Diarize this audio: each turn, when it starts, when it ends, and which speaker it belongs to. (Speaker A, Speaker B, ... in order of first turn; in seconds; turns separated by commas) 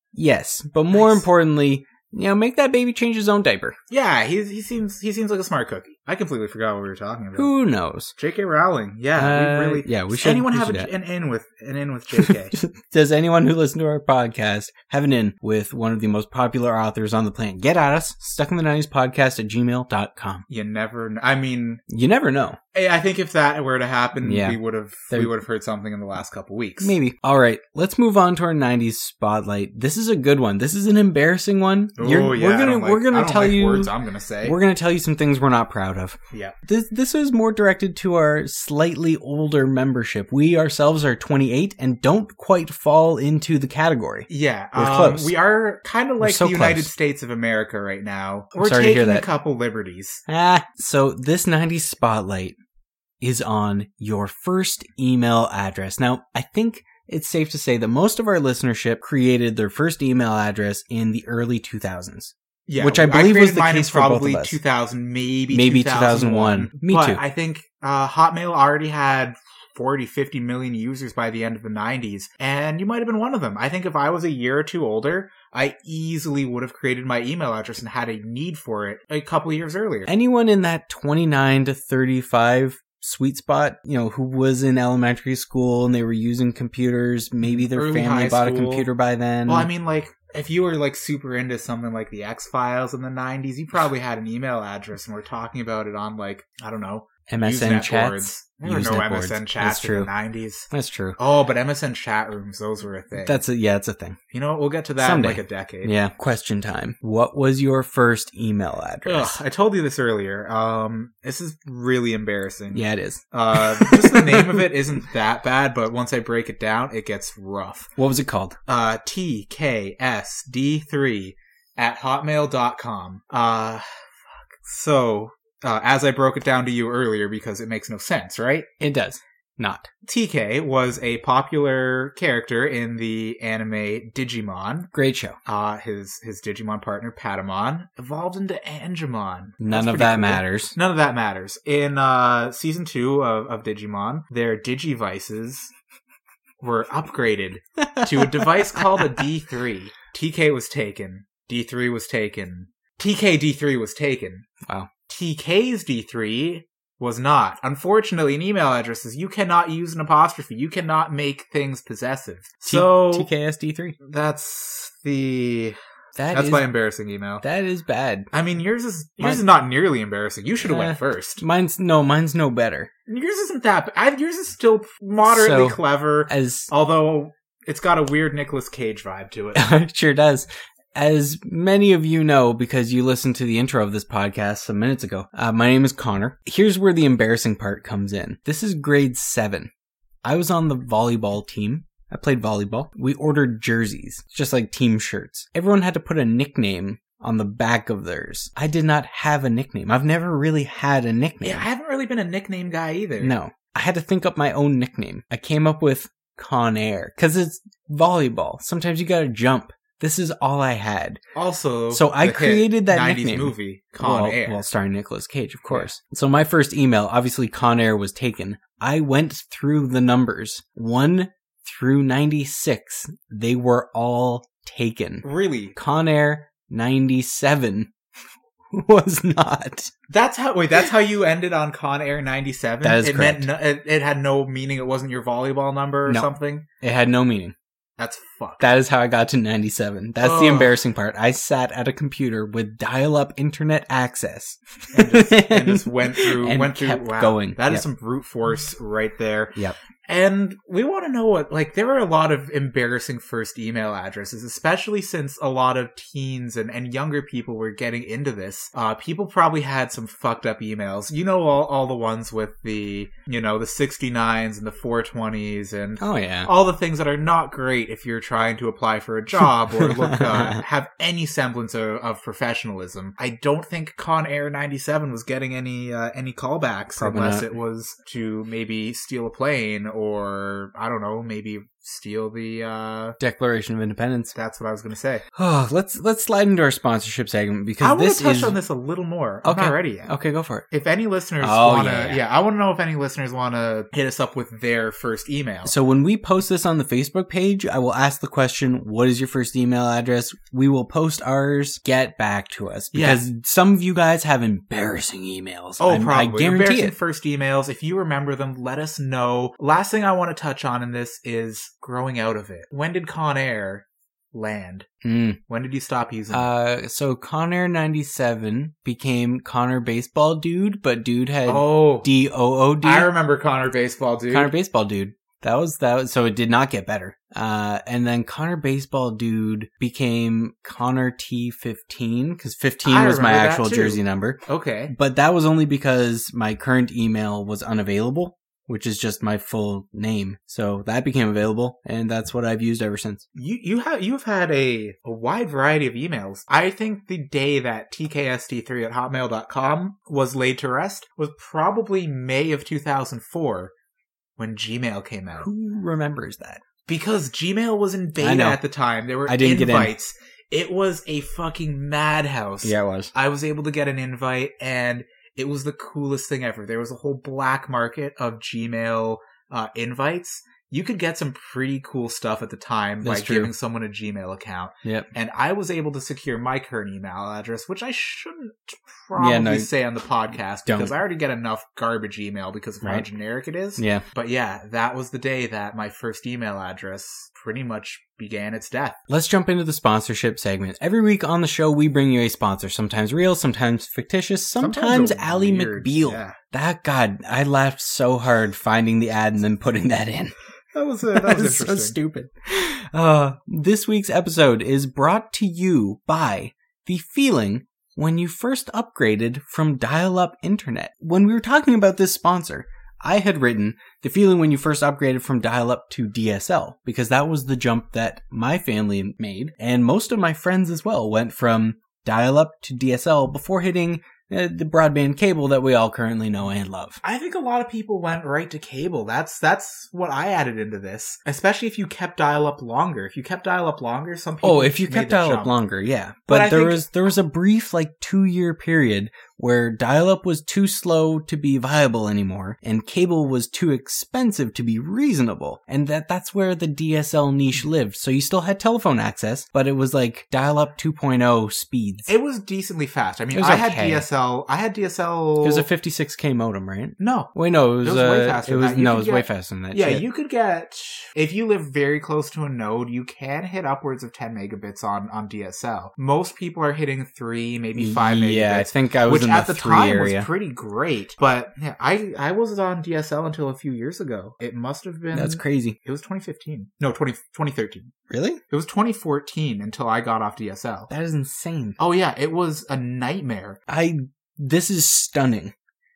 Speaker A: 0.1-3.8, Speaker B: 0.9-1.3, Speaker B: 3.9-7.5, Speaker A: 7.4-8.1, Speaker B: 8.2-12.6, Speaker A: 9.2-10.9, Speaker A: 12.2-20.4, Speaker B: 20.5-21.8, Speaker A: 21.9-22.6, Speaker B: 22.7-27.0, Speaker A: 24.2-24.6, Speaker A: 26.8-45.3, Speaker B: 32.0-34.6, Speaker B: 44.3-50.2, Speaker A: 46.2-46.9, Speaker A: 48.6-49.3, Speaker A: 50.3-52.6, Speaker A: 53.2-64.6, Speaker B: 62.7-80.1, Speaker A: 65.5-67.2, Speaker A: 80.1-89.7, Speaker B: 87.4-88.9, Speaker B: 89.5-103.4, Speaker A: 97.3-100.1, Speaker A: 100.7-101.2, Speaker A: 103.2-104.2, Speaker B: 104.3-105.9, Speaker A: 105.0-109.4, Speaker B: 109.0-118.0, Speaker A: 112.7-114.6, Speaker A: 118.0-118.6, Speaker B: 118.7-123.8, Speaker B: 124.6-128.7, Speaker A: 128.8-129.9, Speaker B: 130.1-134.9, Speaker A: 134.9-135.4, Speaker B: 135.5-145.7, Speaker A: 139.6-140.8, Speaker B: 146.6-154.5, Speaker A: 147.8-149.2, Speaker B: 155.1-163.3, Speaker A: 162.7-164.0, Speaker B: 164.0-165.8, Speaker A: 166.2-166.7, Speaker B: 166.3-167.4, Speaker A: 167.4-168.3, Speaker B: 168.3-171.4, Speaker A: 169.2-169.5, Speaker A: 170.6-172.9, Speaker B: 173.1-179.7, Speaker A: 175.3-176.7, Speaker A: 179.6-189.7, Speaker A: 190.2-201.7, Speaker B: 201.4-203.3, Speaker A: 203.2-211.2, Speaker B: 211.3-214.7, Speaker A: 211.9-227.9, Speaker B: 225.2-225.8, Speaker A: 228.7-229.9, Speaker B: 230.1-236.7, Speaker A: 232.8-233.5, Speaker A: 236.8-237.6, Speaker B: 238.0-238.7, Speaker A: 238.6-247.9, Speaker B: 240.2-240.8, Speaker B: 244.9-283.2, Speaker A: 266.0-266.5, Speaker A: 269.8-270.6, Speaker A: 277.0-277.5, Speaker A: 283.2-284.3, Speaker B: 284.3-285.2, Speaker A: 285.4-288.6, Speaker B: 287.8-290.1, Speaker A: 289.4-290.6, Speaker B: 290.7-295.7, Speaker A: 291.4-292.2, Speaker A: 295.6-306.9, Speaker B: 302.9-303.2, Speaker B: 305.8-314.9, Speaker A: 315.0-315.4, Speaker B: 315.5-316.5, Speaker A: 316.3-323.1, Speaker B: 321.5-322.1, Speaker B: 322.8-324.5, Speaker A: 324.3-343.2, Speaker B: 332.9-334.9, Speaker B: 343.4-353.7, Speaker B: 354.4-355.5, Speaker A: 355.4-356.6, Speaker B: 356.9-389.0, Speaker A: 358.2-358.6, Speaker A: 359.3-359.9, Speaker A: 362.6-363.1, Speaker A: 373.0-373.5, Speaker A: 374.8-375.1, Speaker A: 379.2-379.7, Speaker A: 380.7-380.9, Speaker A: 383.8-384.0, Speaker A: 389.1-400.3, Speaker B: 394.6-396.4, Speaker B: 400.7-402.0, Speaker A: 401.1-427.0, Speaker B: 427.0-435.6, Speaker A: 434.4-452.1, Speaker B: 436.3-436.9, Speaker B: 452.1-455.7, Speaker A: 453.3-454.1, Speaker A: 455.4-460.1, Speaker B: 457.0-477.9, Speaker A: 467.8-470.3, Speaker A: 475.1-475.8, Speaker A: 478.1-478.4, Speaker B: 478.5-480.9, Speaker A: 480.9-481.8, Speaker B: 481.8-483.6, Speaker A: 483.7-485.5